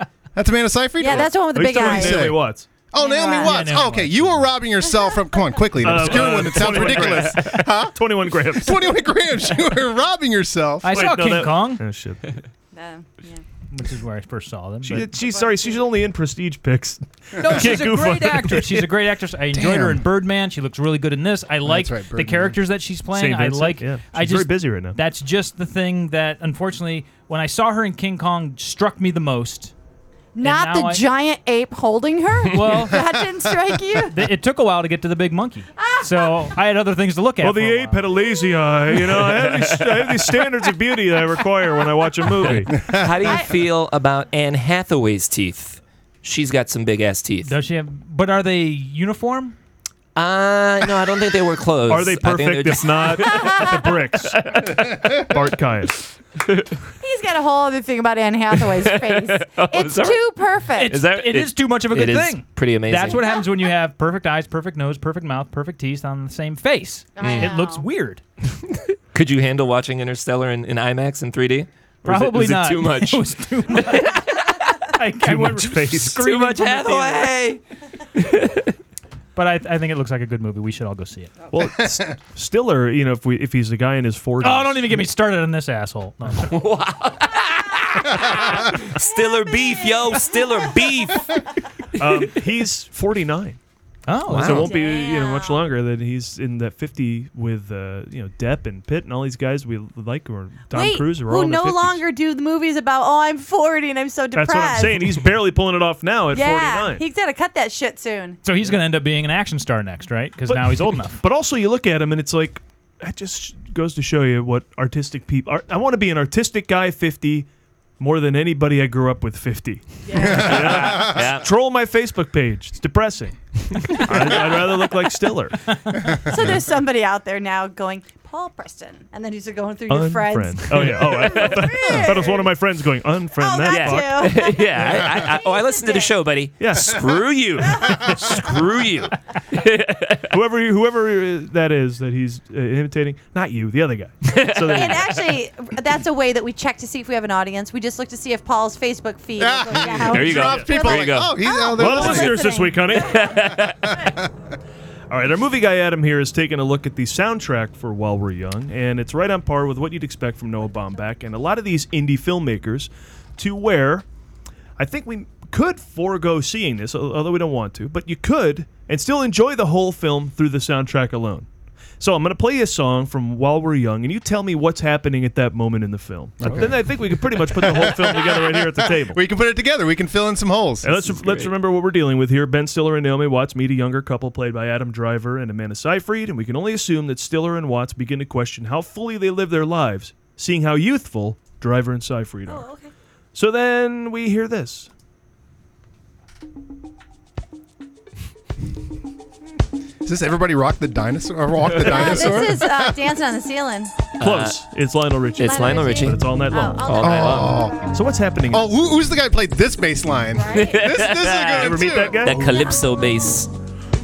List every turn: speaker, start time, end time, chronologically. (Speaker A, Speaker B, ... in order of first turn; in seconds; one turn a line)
Speaker A: 0.3-2.4
Speaker B: 1.0-2.4
Speaker C: 1.1-2.7
Speaker A: 2.9-10.9
Speaker B: 3.0-3.5
Speaker D: 3.4-4.5
Speaker C: 5.8-8.9
Speaker D: 10.8-11.8
Speaker C: 10.9-12.2
Speaker B: 12.7-13.4
Speaker D: 13.7-15.1
Speaker C: 14.8-18.9
Speaker B: 15.2-15.8
Speaker D: 17.4-29.7
Speaker A: 19.5-20.0
Speaker A: 21.6-22.6
Speaker C: 23.1-25.0
Speaker B: 30.3-34.3
Speaker D: 30.4-31.1
Speaker D: 32.5-33.1
Speaker D: 34.1-38.1
Speaker B: 35.8-36.5
Speaker C: 37.4-42.8
Speaker E: 39.3-40.2
Speaker E: 42.4-47.5
Speaker A: 42.8-43.1
Speaker B: 43.2-43.5
Speaker D: 47.4-49.5
Speaker E: 50.1-53.6
Speaker C: 51.9-56.1
Speaker B: 53.2-53.7
Speaker E: 54.4-54.8
Speaker B: 57.0-61.0
Speaker E: 58.6-60.2
Speaker D: 60.8-68.2
Speaker E: 60.8-63.4
Speaker B: 67.2-67.8
Speaker E: 67.2-67.5
Speaker E: 69.1-74.8
Speaker D: 72.0-74.3
Speaker D: 74.9-77.3
Speaker C: 75.2-76.2
Speaker E: 76.0-77.6
Speaker E: 78.2-78.7
Speaker D: 79.3-81.3
Speaker C: 81.5-85.0
Speaker A: 81.6-82.1
Speaker D: 84.4-86.5
Speaker E: 86.4-91.4
Speaker B: 89.1-90.5
Speaker C: 92.0-93.6
Speaker D: 94.1-94.6
Speaker E: 94.3-94.7
Speaker C: 94.3-102.0
Speaker B: 94.6-95.7
Speaker B: 100.7-105.2
Speaker C: 104.3-107.0
Speaker B: 106.3-108.4
Speaker D: 108.4-111.2
Speaker C: 110.5-117.5
Speaker C: 118.0-125.6
Speaker B: 120.1-120.6
Speaker E: 120.3-121.5
Speaker A: 120.5-121.2
Speaker B: 126.0-132.5
Speaker C: 129.9-134.4
Speaker E: 131.1-131.6
Speaker A: 131.9-132.2
Speaker B: 133.3-136.1
Speaker E: 133.6-140.3
Speaker C: 136.6-137.0
Speaker B: 137.7-138.1
Speaker C: 140.3-145.3
Speaker E: 144.2-145.1
Speaker B: 144.7-153.3
Speaker A: 149.4-152.5
Speaker E: 150.0-151.4
Speaker C: 151.7-153.3
Speaker E: 152.9-153.9
Speaker A: 153.6-154.2
Speaker C: 155.1-164.1
Speaker C: 164.8-171.5
Speaker C: 172.0-179.2
Speaker A: 176.4-181.1
Speaker C: 180.8-192.7
Speaker E: 181.2-181.5
Speaker B: 192.5-192.9
Speaker C: 193.3-194.9
Speaker A: 200.0-203.0
Speaker B: 201.8-203.9
Speaker E: 201.8-202.1
Speaker E: 204.2-204.6
Speaker C: 204.2-206.9
Speaker E: 205.4-206.2
Speaker B: 205.4-207.6
Speaker E: 206.8-207.6
Speaker A: 207.0-207.9
Speaker C: 207.8-208.7
Speaker A: 208.5-212.5
Speaker B: 210.4-210.7
Speaker E: 210.5-213.5
Speaker C: 211.5-212.5